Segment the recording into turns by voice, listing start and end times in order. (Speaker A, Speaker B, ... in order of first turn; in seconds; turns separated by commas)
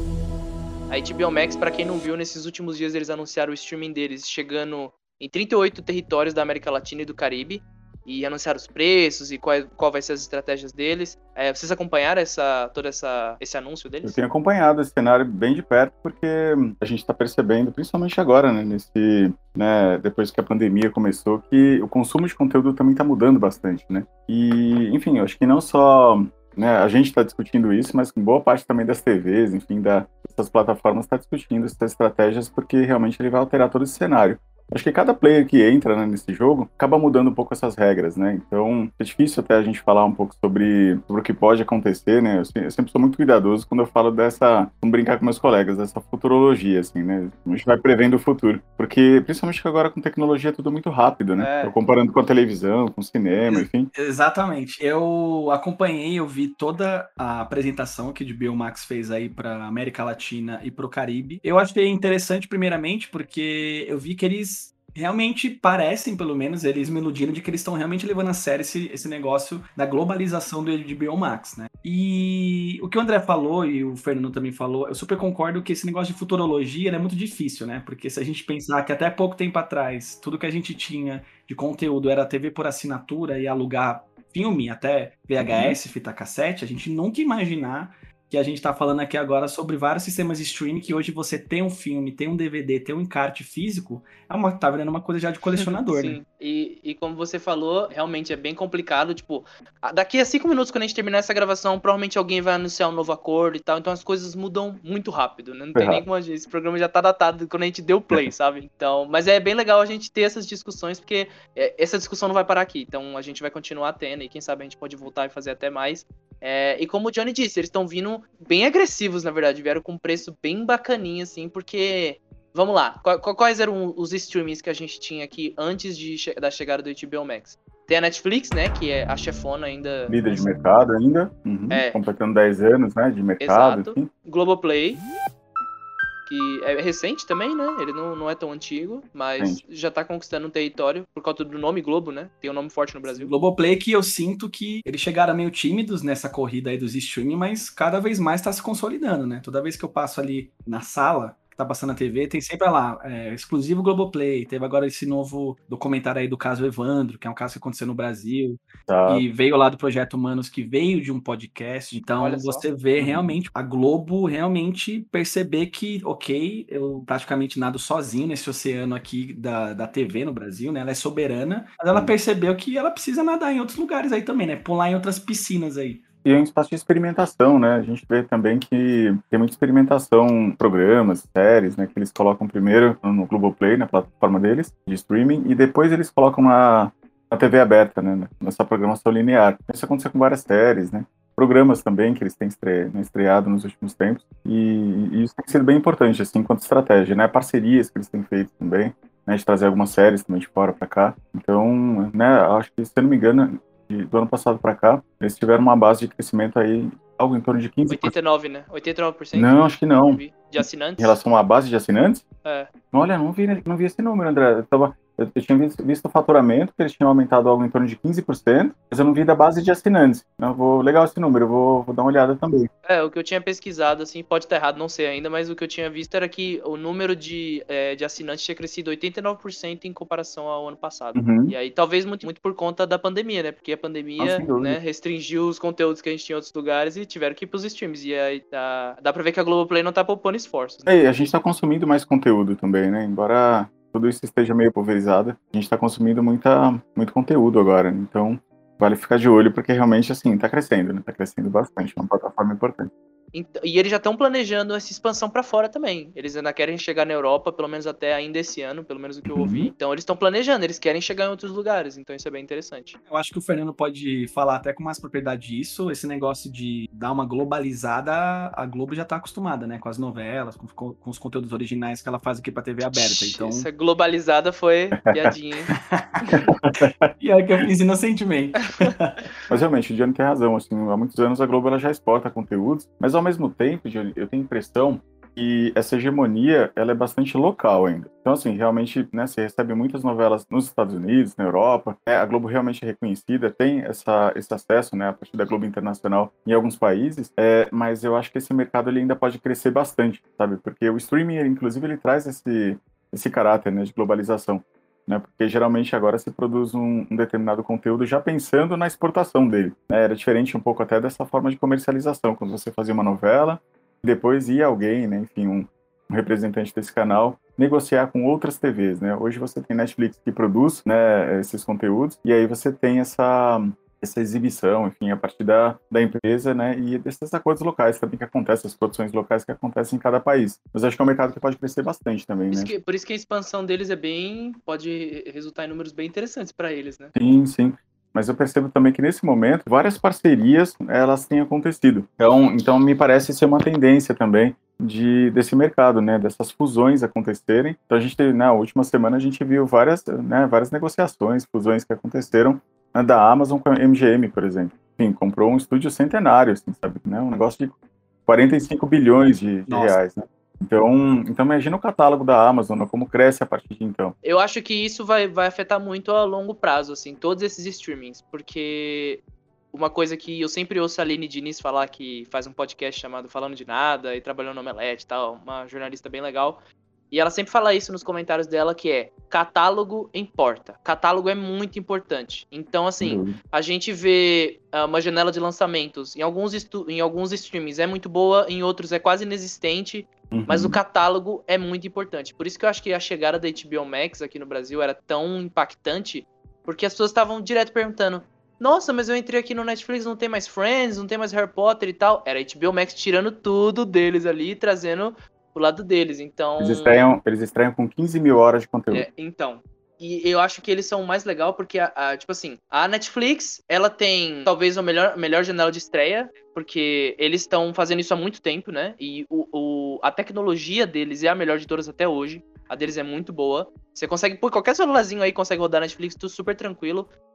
Speaker A: 0.9-14.2, Speaker B: 14.0-53.9, Speaker A: 51.4-51.7, Speaker C: 53.5-96.2, Speaker B: 85.4-85.8, Speaker A: 95.6-130.3, Speaker B: 105.8-106.0, Speaker B: 130.1-134.1, Speaker A: 131.7-132.0, Speaker A: 133.4-135.0, Speaker A: 136.3-143.3, Speaker C: 143.1-176.0, Speaker B: 158.9-159.3, Speaker A: 162.0-162.7, Speaker B: 163.0-163.3, Speaker B: 176.2-208.1, Speaker A: 207.9-211.2, Speaker B: 209.3-212.2, Speaker A: 212.4-212.7, Speaker B: 212.9-222.7, Speaker A: 222.8-240.9, Speaker B: 231.2-231.5, Speaker B: 234.2-234.8, Speaker B: 240.9-252.9, Speaker A: 253.3-263.0, Speaker B: 259.3-259.7, Speaker C: 263.1-273.7, Speaker A: 272.9-275.7, Speaker C: 275.7-276.3, Speaker B: 276.6-277.1, Speaker C: 277.2-279.2, Speaker B: 279.5-332.7, Speaker A: 332.5-337.1, Speaker B: 337.1-364.1, Speaker C: 359.7-360.0, Speaker A: 364.2-376.6, Speaker A: 377.1-407.0, Speaker B: 383.0-383.4, Speaker B: 390.3-390.8, Speaker B: 406.6-409.1, Speaker A: 408.9-427.1